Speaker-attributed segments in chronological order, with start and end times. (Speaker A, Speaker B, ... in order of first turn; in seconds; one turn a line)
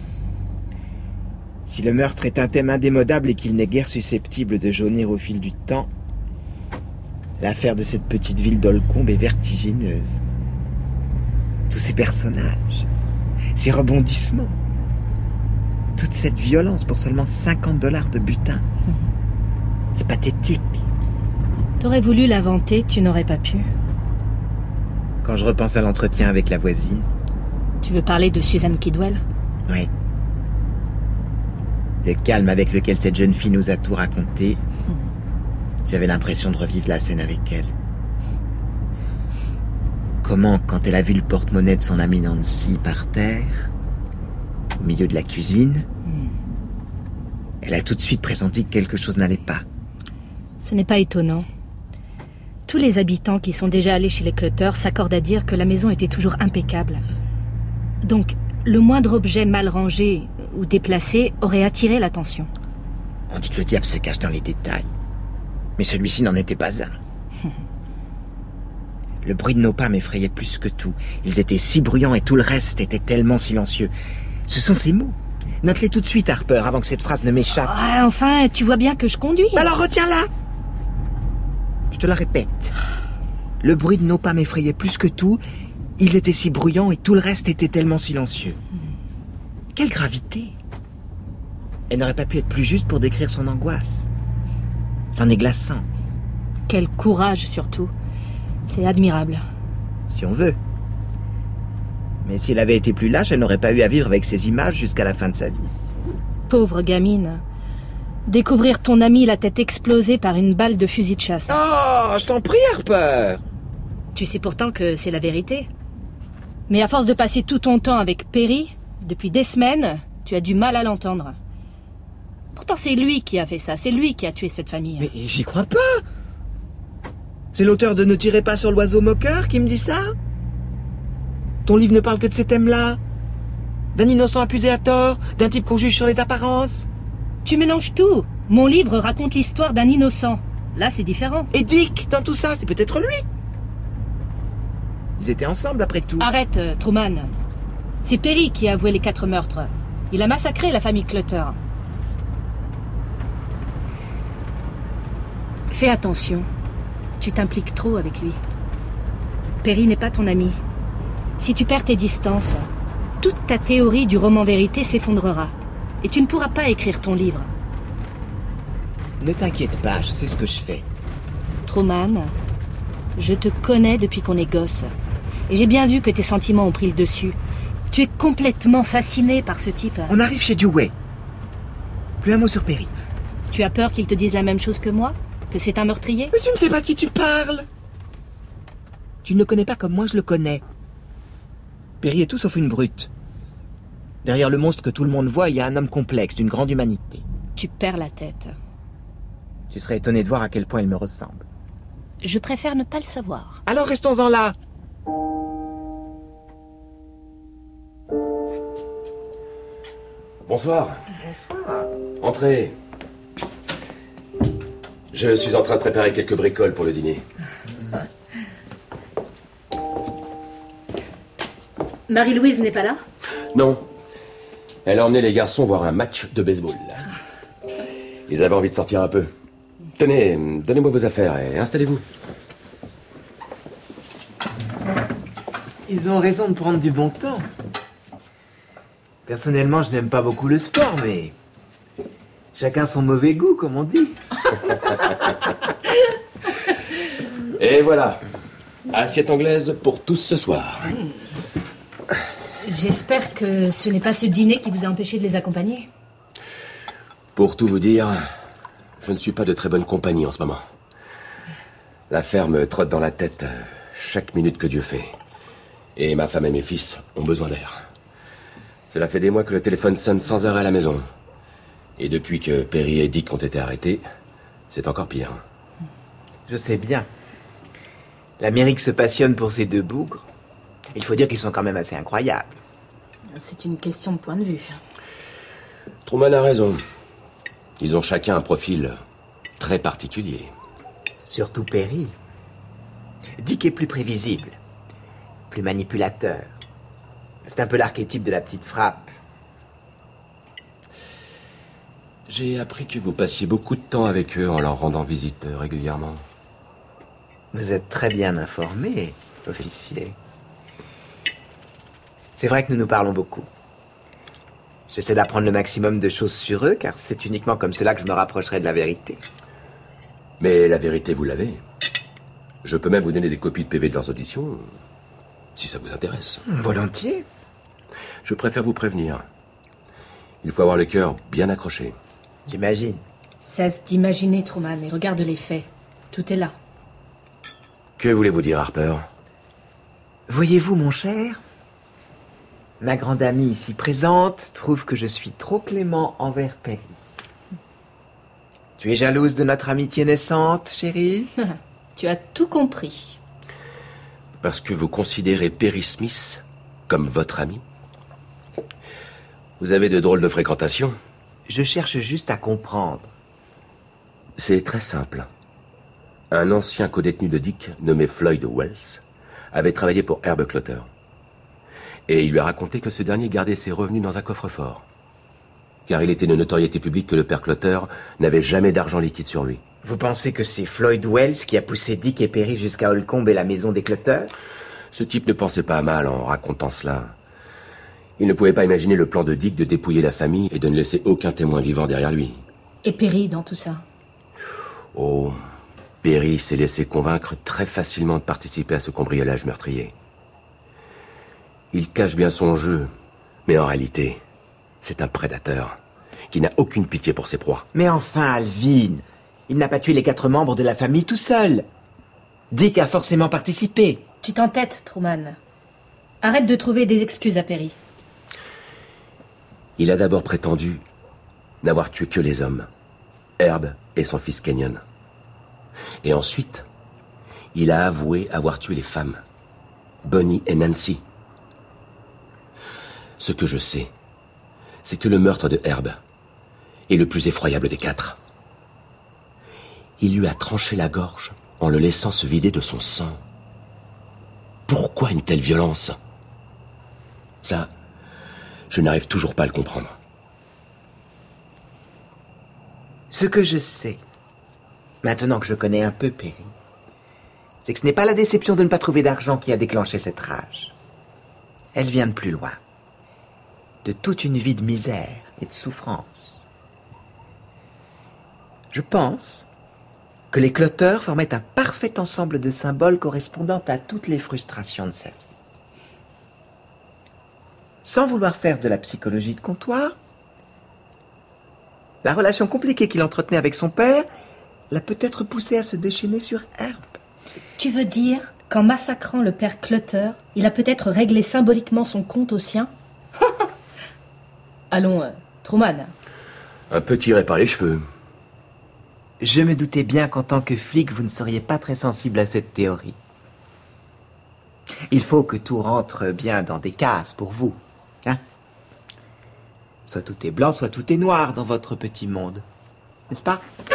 Speaker A: 1.7-5.9
Speaker A: 7.4-10.2
Speaker A: 11.7-12.9
Speaker A: 13.5-14.6
Speaker A: 15.9-18.6
Speaker A: 19.9-20.8
Speaker B: 21.8-23.7
Speaker A: 25.2-27.1
Speaker B: 27.8-29.2
Speaker A: 32.0-34.6
Speaker A: 35.8-37.7
Speaker A: 40.2-43.7
Speaker A: 44.8-45.9
Speaker A: 47.6-49.6
Speaker B: 50.6-51.5
Speaker B: 52.7-57.0
Speaker B: 58.0-62.5
Speaker A: 63.3-64.9
Speaker A: 65.8-67.0
Speaker A: 69.2-73.9
Speaker A: 74.5-77.7
Speaker B: 77.6-79.7
Speaker A: 79.5-80.3
Speaker A: 81.9-82.8
Speaker A: 83.6-85.4
Speaker A: 86.0-88.6
Speaker A: 89.7-90.5
Speaker A: 91.9-94.1
Speaker A: 95.1-95.9
Speaker B: 96.7-97.9
Speaker B: 98.7-99.4
Speaker A: 100.1-100.6
Speaker A: 102.2-105.7
Speaker B: 106.5-107.4
Speaker B: 108.3-111.6
Speaker A: 111.5-113.4
Speaker B: 114.1-115.7
Speaker B: 116.7-121.4
Speaker B: 122.5-125.1
Speaker A: 125.0-126.0
Speaker A: 127.5-130.1
Speaker A: 131.7-133.0
Speaker A: 133.9-136.9
Speaker B: 137.4-141.5
Speaker A: 141.5-143.2
Speaker A: 145.2-146.3
Speaker B: 146.2-147.3
Speaker B: 148.0-151.6
Speaker B: 155.7-156.5
Speaker B: 157.2-158.4
Speaker B: 159.6-160.6
Speaker B: 161.4-162.7
Speaker B: 163.2-167.5
Speaker A: 169.2-170.8
Speaker B: 171.7-172.3
Speaker B: 173.2-174.9
Speaker B: 175.5-177.4
Speaker B: 177.9-180.1
Speaker A: 180.1-180.9
Speaker A: 182.2-182.9
Speaker B: 183.5-186.3
Speaker A: 186.3-187.7
Speaker A: 189.2-190.6
Speaker A: 192.0-193.1
Speaker A: 194.2-197.2
Speaker B: 197.6-198.5
Speaker A: 199.7-201.4
Speaker B: 202.2-203.6
Speaker A: 203.7-204.6
Speaker C: 210.4-211.0
Speaker A: 211.2-211.9
Speaker C: 212.2-212.7
Speaker C: 215.1-217.2
Speaker B: 222.1-223.0
Speaker C: 223.5-223.8
Speaker C: 224.8-227.1
Speaker C: 228.3-229.3
Speaker C: 229.9-232.0
Speaker A: 235.9-237.5
Speaker A: 239.2-241.3
Speaker A: 242.5-244.2
Speaker C: 247.6-248.2
Speaker C: 248.9-251.0
Speaker B: 252.6-255.9
Speaker C: 257.3-258.2
Speaker C: 259.0-260.6
Speaker C: 262.1-265.1
Speaker C: 265.9-267.9
Speaker C: 268.9-271.0
Speaker C: 272.0-274.0
Speaker C: 274.7-275.4
Speaker A: 276.5-277.1
Speaker A: 278.4-280.2
Speaker A: 280.9-282.6
Speaker B: 283.3-284.8
Speaker C: 286.1-286.8
Speaker C: 287.8-289.0
Speaker C: 289.6-290.5
Speaker A: 291.2-292.1
Speaker A: 293.4-294.6
Speaker A: 295.5-296.5
Speaker A: 297.4-299.1
Speaker C: 302.3-306.2
Speaker A: 307.5-310.1
Speaker A: 312.4-313.5
Speaker A: 314.9-319.2
Speaker C: 320.4-321.6
Speaker C: 322.6-324.7
Speaker C: 325.6-326.4
Speaker A: 326.5-327.2
Speaker C: 328.2-329.2
Speaker C: 330.4-331.9
Speaker A: 332.5-333.0
Speaker B: 333.4-336.5
Speaker C: 338.0-339.1
Speaker A: 340.3-341.4
Speaker A: 342.8-347.0
Speaker A: 348.8-351.3
Speaker B: 351.4-353.2
Speaker C: 354.4-357.6
Speaker C: 359.6-361.0
Speaker A: 361.5-363.1
Speaker C: 364.4-365.3
Speaker C: 366.3-370.9
Speaker C: 372.1-374.8
Speaker C: 375.9-379.6
Speaker A: 379.8-384.3
Speaker C: 384.9-387.1
Speaker C: 388.2-392.4
Speaker B: 392.8-393.8
Speaker C: 394.9-395.4
Speaker C: 396.0-399.9
Speaker C: 401.7-402.9
Speaker C: 403.4-404.2
Speaker C: 404.8-405.8
Speaker C: 406.3-407.6
Speaker A: 407.7-411.6
Speaker A: 412.5-414.0
Speaker B: 414.2-415.4
Speaker B: 416.2-417.7
Speaker C: 419.8-420.8
Speaker C: 421.6-422.7
Speaker C: 423.4-424.8
Speaker C: 426.0-426.6
Speaker C: 427.5-429.2
Speaker C: 430.0-431.0
Speaker C: 433.2-433.9
Speaker C: 434.8-436.0
Speaker C: 436.9-438.2
Speaker C: 440.0-443.2
Speaker C: 444.7-446.0
Speaker C: 447.4-447.7
Speaker C: 448.7-449.9
Speaker A: 453.1-454.0
Speaker A: 455.0-456.5
Speaker A: 457.6-460.7
Speaker A: 461.7-462.6
Speaker A: 463.8-466.4
Speaker A: 468.7-469.5
Speaker A: 470.3-475.2
Speaker A: 477.8-479.9
Speaker A: 482.0-484.1
Speaker A: 484.7-487.0
Speaker B: 487.6-492.7
Speaker B: 494.7-495.9
Speaker C: 496.7-497.8
Speaker A: 499.2-503.0
Speaker A: 504.9-508.2
Speaker A: 509.9-512.4
Speaker A: 513.1-513.4